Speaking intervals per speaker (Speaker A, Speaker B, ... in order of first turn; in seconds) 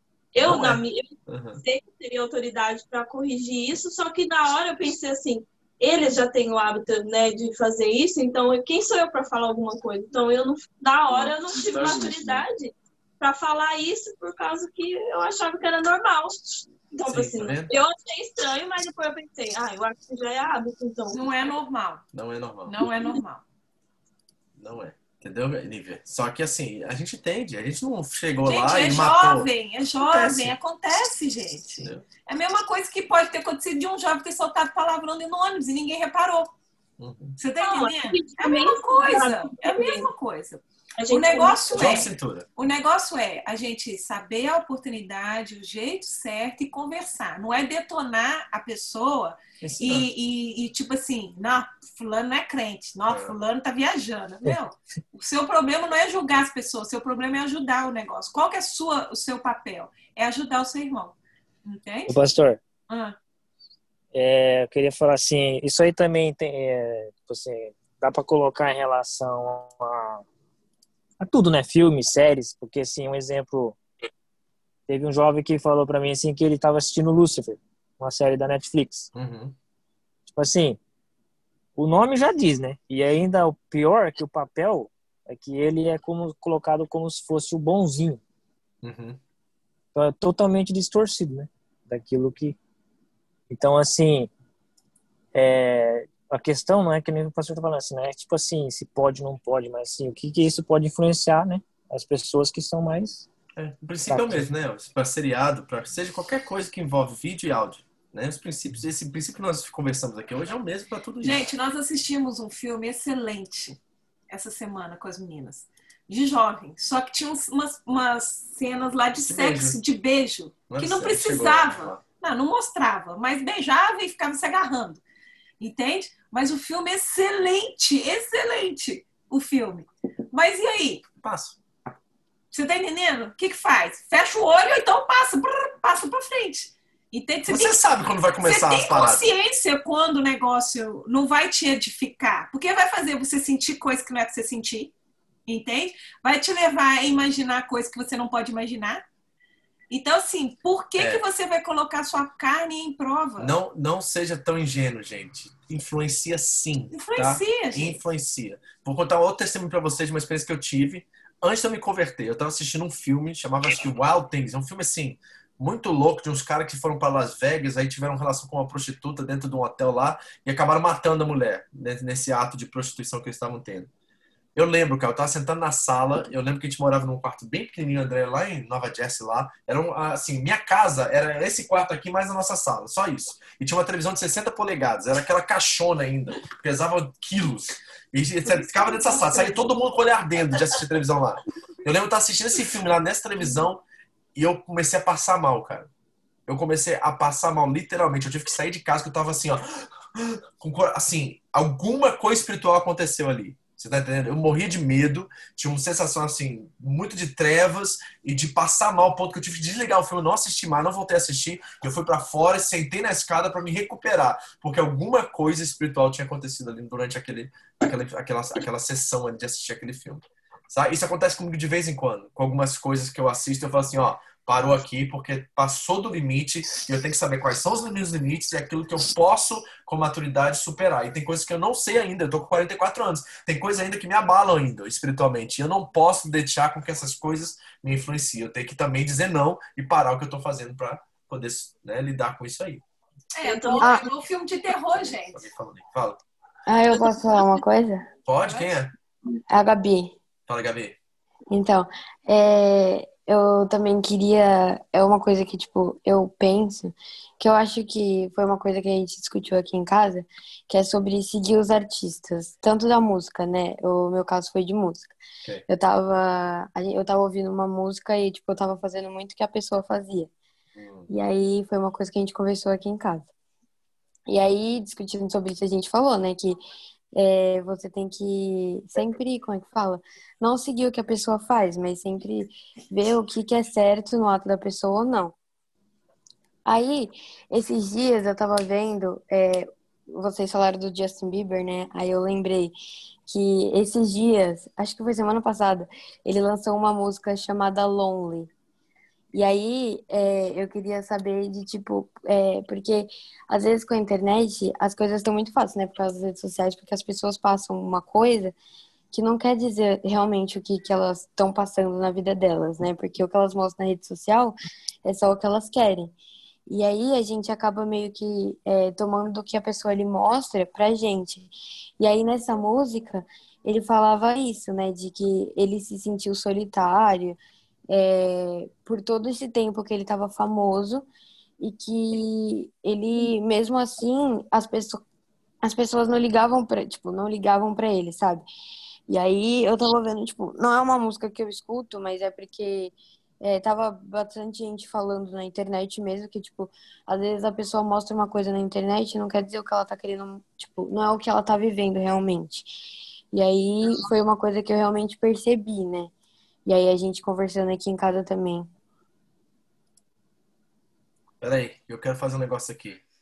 Speaker A: 0.3-21.5, 37.6-40.1, 41.0-42.0, 243.4-243.9
Speaker B: 0.4-1.6, 11.1-12.4, 17.0-17.7, 22.1-22.8, 24.6-30.5, 31.8-32.0, 37.0-37.4, 41.7-42.5, 49.6-50.1, 53.1-53.4, 79.1-79.6, 88.8-89.2, 103.6-111.5, 119.3-119.8, 120.7-122.0, 131.2-131.6, 137.5-139.3, 151.0-151.2, 153.4-173.9, 174.6-193.8, 194.4-195.9, 196.5-242.8, 245.3-246.2, 248.3-248.9, 250.5-251.0, 270.8-271.1, 361.4-363.0
Speaker C: 21.1-22.0, 22.7-23.4, 28.5-36.5, 37.4-62.1, 62.9-63.2, 111.2-125.0, 125.6-131.0, 132.5-137.9, 138.4-144.9, 145.5-149.0, 149.9-153.6, 156.9-158.0, 188.4-189.7, 243.3-245.5, 248.4-248.7
Speaker D: 62.1-62.6, 64.1-70.2, 71.2-73.8, 74.9-79.1, 80.3-80.8, 81.8-88.2, 89.9-92.6, 93.5-94.3, 95.3-103.3, 104.1-104.4
Speaker E: 243.8-244.1, 246.7-248.1, 249.5-250.1, 251.5-265.2, 265.7-270.3, 271.1-273.3, 274.3-276.6, 277.1-285.4, 286.7-292.8, 293.3-298.5, 299.3-308.6, 309.1-316.1, 316.7-327.4, 327.9-331.1, 331.6-335.0, 335.6-338.5, 339.1-352.7, 353.3-356.1, 356.7-358.7